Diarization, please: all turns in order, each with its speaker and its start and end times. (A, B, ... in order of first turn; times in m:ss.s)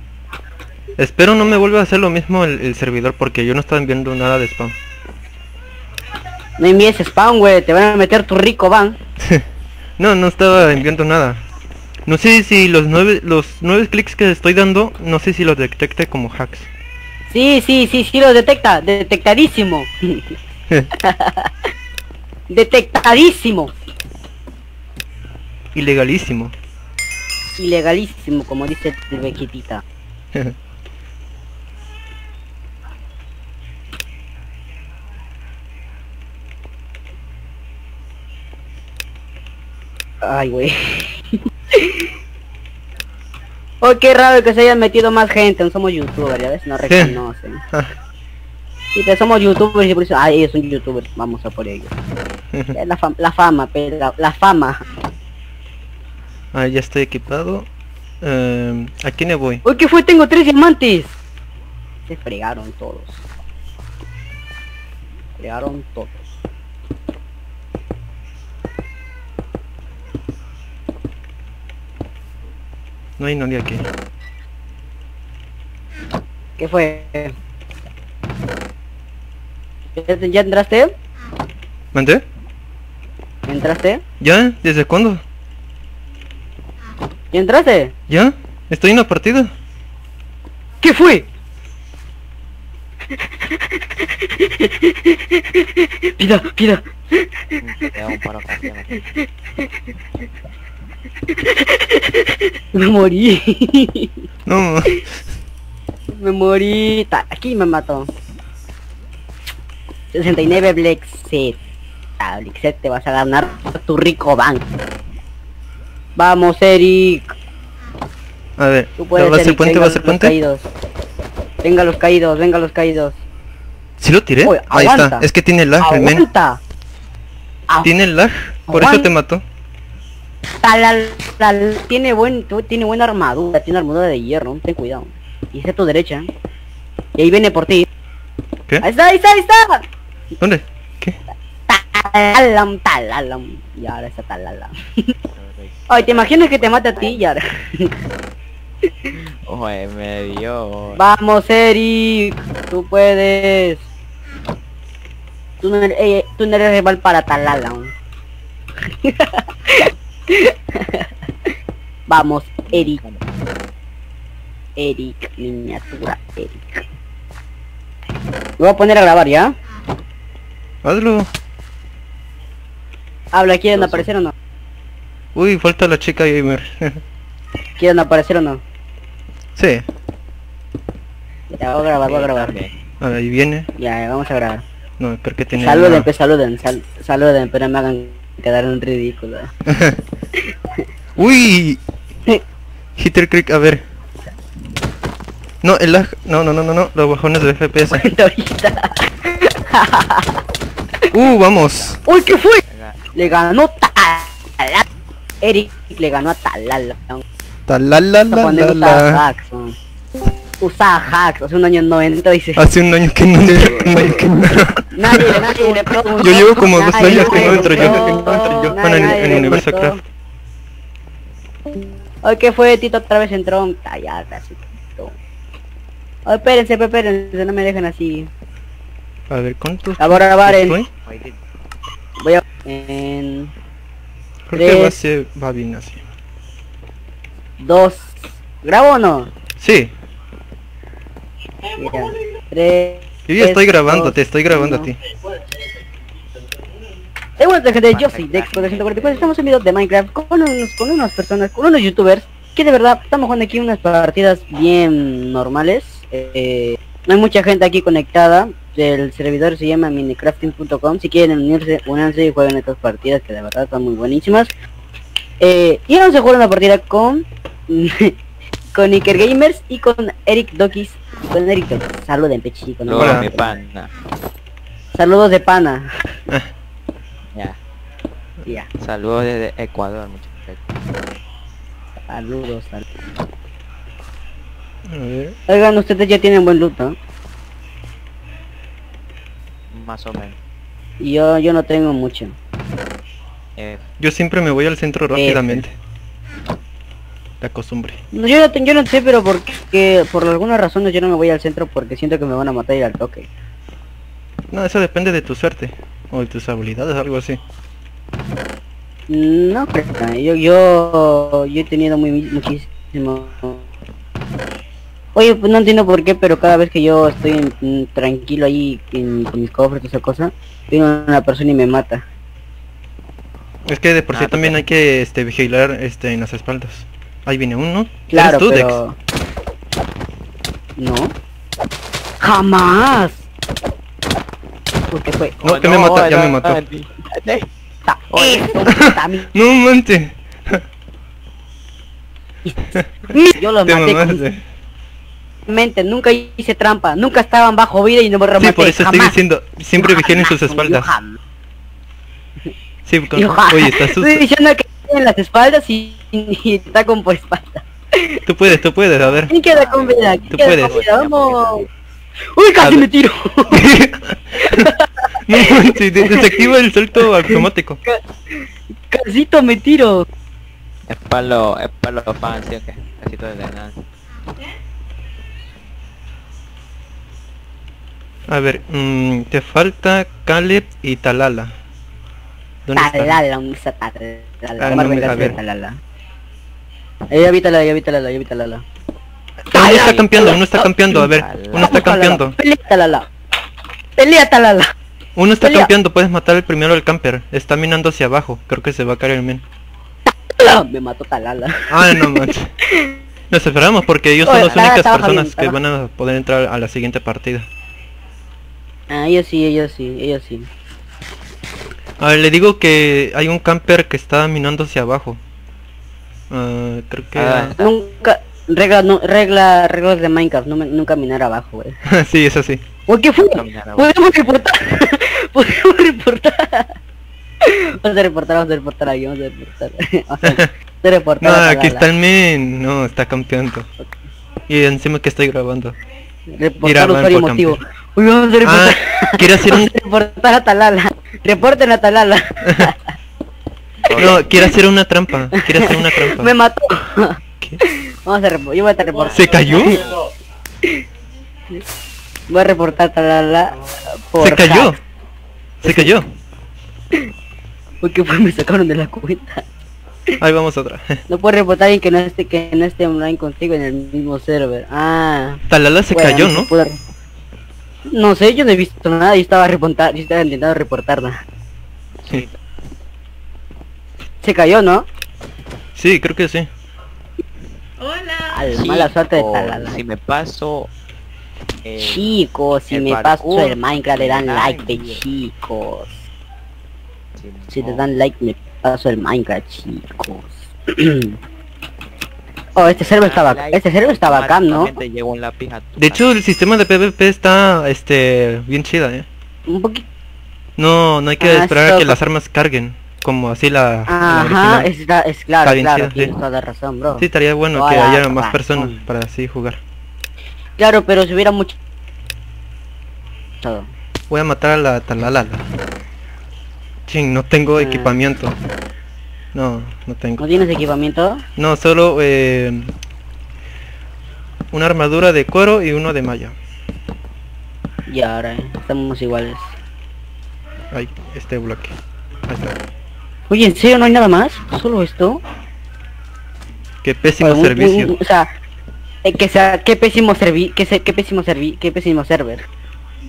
0:01.0-0:04.7 A
0:06.6-0:09.0 B
0:10.0-0:11.4 A
0:12.0-0:16.7 A
0:17.3-0:20.3 B
0:21.0-0:21.5 B
0:22.5-0:23.7 B
0:25.7-0:26.5 A
0:27.6-0:29.8 B
0:40.2-0:42.1 B
0:43.8-0:47.6 B
0:46.9-0:47.2 A
0:48.9-0:51.9 B
0:52.7-0:54.8 B
0:56.5-0:57.7 A
0:58.2-0:59.6 A
0:59.6-1:01.1 B
1:02.1-1:03.2 B
1:05.4-1:06.2 B
1:13.2-1:13.8 A
1:16.6-1:17.3 B
1:20.0-1:20.9 B
1:21.9-1:22.2 A
1:23.4-1:24.0 B
1:24.2-1:25.2 A
1:27.3-1:27.9 B
1:28.1-1:29.5 A
1:30.8-1:31.3 B
1:33.4-1:37.6 B
1:37.6-1:39.0 C
1:41.3-1:44.2 B
1:44.4-1:45.2 A
1:46.2-1:48.1 B
1:50.1-1:51.6 B
1:52.2-1:54.6 B
1:56.2-1:57.3 B
1:58.6-2:00.3 A
1:59.0-2:00.6 B
2:01.6-2:03.2 B
2:04.0-2:06.2 A
2:04.4-2:05.2 B
2:05.8-2:06.6 B
2:07.8-2:09.4 A
2:08.7-2:09.1 B
2:10.6-2:16.3 B
2:17.2-2:17.9 B
2:18.8-2:19.8 B
2:20.4-2:21.2 A
2:21.7-2:25.1 B
2:25.4-2:27.2 C
2:25.9-2:27.9 B
2:29.4-2:31.0 C
2:30.9-2:33.8 B
2:35.6-2:37.9 B
2:38.9-2:41.1 B
2:42.1-2:43.0 B
2:42.7-2:43.4 C
2:44.8-2:46.8 B
2:48.6-2:49.5 B
2:50.8-2:51.3 A
2:53.3-2:54.3 B
2:53.8-2:54.1 C
2:55.3-2:57.0 A
2:57.8-2:58.6 B
2:59.6-2:59.8 A
3:01.5-3:02.6 B
3:01.9-3:02.7 C
3:03.0-3:03.7 A
3:03.8-3:04.6 B
3:05.0-3:06.1 A
3:05.5-3:09.5 B
3:09.7-3:10.0 A
3:11.2-3:11.8 A
3:13.0-3:13.8 A
3:15.6-3:18.1 A
3:17.9-3:20.4 B
3:21.1-3:22.0 A
3:21.4-3:22.0 C
3:22.0-3:22.6 B
3:22.6-3:23.4 C
3:23.1-3:24.8 B
3:25.4-3:27.2 B
3:27.7-3:29.2 A
3:28.3-3:29.7 B
3:30.6-3:32.6 B
3:32.6-3:39.9 A
3:33.8-3:34.0 B
3:34.9-3:40.0 B
3:37.2-3:38.6 C
3:42.2-3:45.2 B
3:46.2-3:48.3 B
3:49.3-3:50.9 A
3:50.0-3:50.8 B
3:51.0-3:51.4 C
3:52.2-3:53.5 B
3:54.5-3:56.0 A
3:54.5-3:54.9 B
3:57.6-3:59.3 B
3:59.6-3:59.9 A
4:01.8-4:04.9 B
4:03.3-4:05.0 A
4:07.4-4:24.5 B
4:07.9-4:09.6 C
4:25.4-4:28.2 B
4:28.7-4:33.6 B
4:32.8-4:33.9 C
4:33.0-4:33.3 A
4:34.9-4:35.9 B
4:38.8-4:40.6 C
4:42.1-4:42.8 B
4:44.8-4:45.4 A
4:45.5-4:46.9 B
4:49.7-4:50.4 C
4:51.0-4:52.3 B
4:53.6-4:53.8 C
4:54.0-4:55.8 A
4:55.1-4:55.6 B
4:57.4-4:58.0 A
4:58.1-5:03.3 B
5:04.5-5:07.4 A
5:09.1-5:13.6 B
5:15.1-5:22.0 B
5:23.6-5:28.8 A
5:24.1-5:24.6 C
5:28.1-5:28.9 B
5:30.8-5:31.1 B
5:32.2-5:33.2 B
5:34.9-5:35.4 B
5:35.4-5:37.5 C
5:35.4-5:36.6 A
5:37.9-5:39.3 B
5:38.1-5:38.6 C
5:38.7-5:40.6 A
5:42.4-5:44.2 B
5:42.7-5:44.4 A
5:45.5-5:49.2 B
5:48.4-5:50.9 A
5:49.8-5:51.2 B
5:52.8-5:54.2 A
5:53.2-5:58.2 B
5:58.2-5:59.3 A
5:59.0-6:01.7 C
5:59.3-6:01.7 B
6:00.3-6:00.7 A
6:02.3-6:03.7 B
6:02.6-6:02.9 A
6:03.5-6:04.6 A
6:04.4-6:06.5 B
6:05.2-6:07.8 A
6:07.2-6:10.0 B
6:10.9-6:13.8 C
6:18.3-6:21.5 A
6:22.6-6:23.2 A
6:22.8-6:25.8 B
6:24.6-6:25.4 A
6:27.1-6:28.6 B
6:29.5-6:32.4 A
6:29.5-6:33.1 B
6:31.0-6:31.8 C
6:34.0-6:34.7 B
6:35.2-6:39.4 A
6:35.4-6:35.7 B
6:40.3-6:42.9 B
6:41.7-6:42.5 A
6:43.3-6:47.5 A
6:44.2-6:45.6 B
6:44.4-6:44.7 C
6:48.9-6:50.5 B
6:52.0-6:55.2 A
6:56.3-6:57.5 A
6:57.1-6:57.7 C
6:57.6-7:01.7 B
7:01.9-7:02.6 A
7:02.9-7:06.7 B
7:03.3-7:03.9 C
7:07.4-7:11.8 B
7:10.2-7:10.5 A
7:11.2-7:13.7 A
7:14.5-7:15.8 A
7:16.3-7:22.8 B
7:16.6-7:17.6 A
7:18.4-7:19.7 A
7:22.4-7:22.7 A
7:23.8-7:24.3 C
7:24.0-7:26.3 A
7:24.0-7:24.5 B
7:25.3-7:29.8 B
7:29.0-7:30.0 C
7:29.1-7:29.8 A
7:32.3-7:34.7 B
7:34.2-7:34.8 A
7:35.6-7:36.0 B
7:35.6-7:36.0 A
7:37.8-7:39.4 B
7:40.2-7:41.0 A
7:41.1-7:46.8 B
7:45.5-7:46.5 A
7:47.9-7:51.2 B
7:52.0-7:52.4 C
7:54.2-7:54.8 B
7:55.7-7:56.5 A
7:58.3-7:59.8 B
7:58.3-8:00.7 C
8:01.6-8:02.1 C
8:01.8-8:06.0 B
8:02.7-8:05.1 C
8:07.2-8:07.8 C
8:07.5-8:11.2 B
8:12.6-8:14.7 B
8:12.8-8:16.0 C
8:15.8-8:19.1 A
8:19.5-8:19.8 B
8:20.6-8:24.7 A
8:21.2-8:22.0 B
8:23.9-8:28.8 B
8:25.4-8:26.1 A
8:26.9-8:29.6 A
8:30.6-8:31.5 B
8:33.4-8:33.7 B
8:34.1-8:35.4 A
8:36.9-8:38.4 A
8:37.6-8:37.9 B
8:39.3-8:40.3 A
8:40.2-8:41.2 B
8:41.4-8:42.7 A
8:44.5-8:46.4 A
8:47.9-8:49.6 B
8:50.7-8:51.7 A
8:52.3-8:52.6 A
8:53.3-8:55.2 B
8:56.8-8:57.9 A
8:57.2-8:58.3 B
8:59.0-9:02.4 B